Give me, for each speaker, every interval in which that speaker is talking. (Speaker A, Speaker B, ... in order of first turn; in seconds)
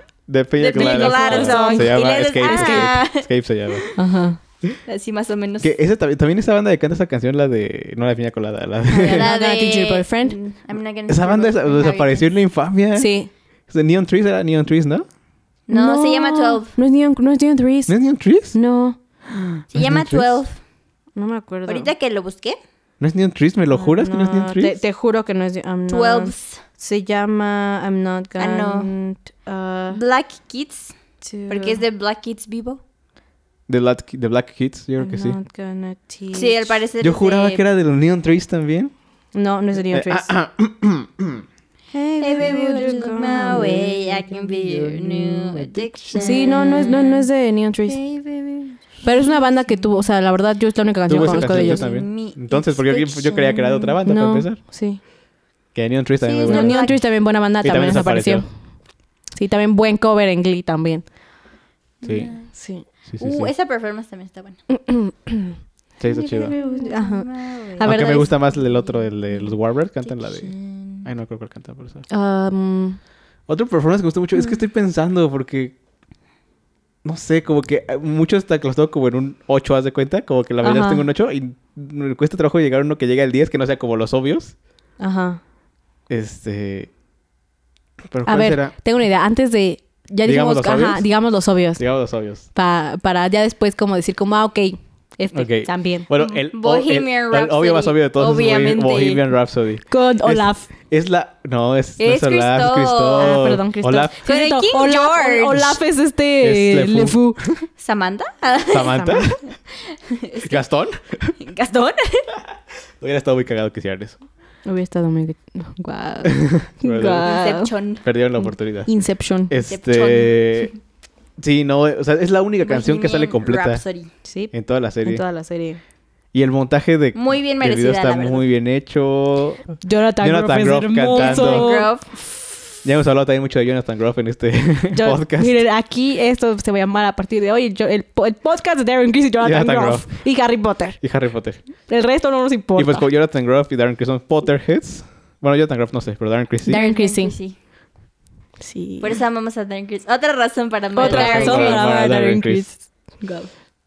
Speaker A: 0.3-3.9, 5.6-9.3, 11.1-13.1, 13.7-15.1, 17.9-18.6, 19.3-20.4, 23.0-24.8, 33.7-35.4, 37.0-38.9, 39.9-41.5, 44.3-46.4, 51.1-54.6, 55.7-57.0, 57.6-58.5, 62.0-62.3, 63.1-63.5, 66.0-66.5, 67.8-72.1, 73.5-75.8, 77.0-84.5, 86.1-86.9, 88.1-88.7, 90.2-91.0, 91.8-92.5, 95.3-104.1, 106.4-107.6, 108.7-109.4, 110.4-111.3, 112.4-114.2, 116.3-117.3, 118.0-118.9, 119.5-120.7, 121.4-123.8, 124.5-125.2, 126.3-131.7, 132.8-135.6, 139.4-140.1, 141.0-141.6, 142.8-146.8, 151.0-152.7
Speaker B: 0.6-3.9, 4.9-5.7, 9.0-12.3, 15.7-16.8, 19.7-20.6, 21.7-22.6, 25.9-26.6, 28.4-28.9, 29.9-30.9, 31.5-32.8, 36.3-37.6, 42.2-47.3, 47.9-49.9, 51.1-54.0, 56.2-57.0, 62.0-62.5, 63.2-64.6, 66.1-67.9, 69.3-71.1, 96.2-99.2, 102.0-103.5, 104.2-105.8, 107.8-109.1, 109.8-110.6, 111.4-112.3, 117.2-118.0, 119.7-120.7, 122.6-124.1, 127.1-128.4, 131.1-132.1, 146.7-147.6, 149.0-151.9
Speaker C: 0.7-3.0, 4.0-4.4, 8.9-10.4, 12.9-13.3, 15.7-18.0, 18.5-19.0, 21.2-21.9, 23.7-30.0, 31.2-31.8, 35.0-36.8, 39.3-40.3, 41.9-44.1, 46.1-48.0, 49.0-51.9, 54.0-55.0, 56.5-58.5, 59.3-61.0, 62.5-62.9, 64.7-65.6, 66.5-68.3, 72.1-73.0, 80.6-81.1, 85.0-85.4, 88.3-91.8, 92.5-96.1, 99.9-100.7, 103.2-107.4, 109.0-109.3, 114.7-117.7, 118.4-119.5, 124.3-124.5, 125.0-125.8, 129.8-131.9, 134.9-141.0, 141.8-143.1, 146.7-147.3, 148.6-149.2, 151.0-153.5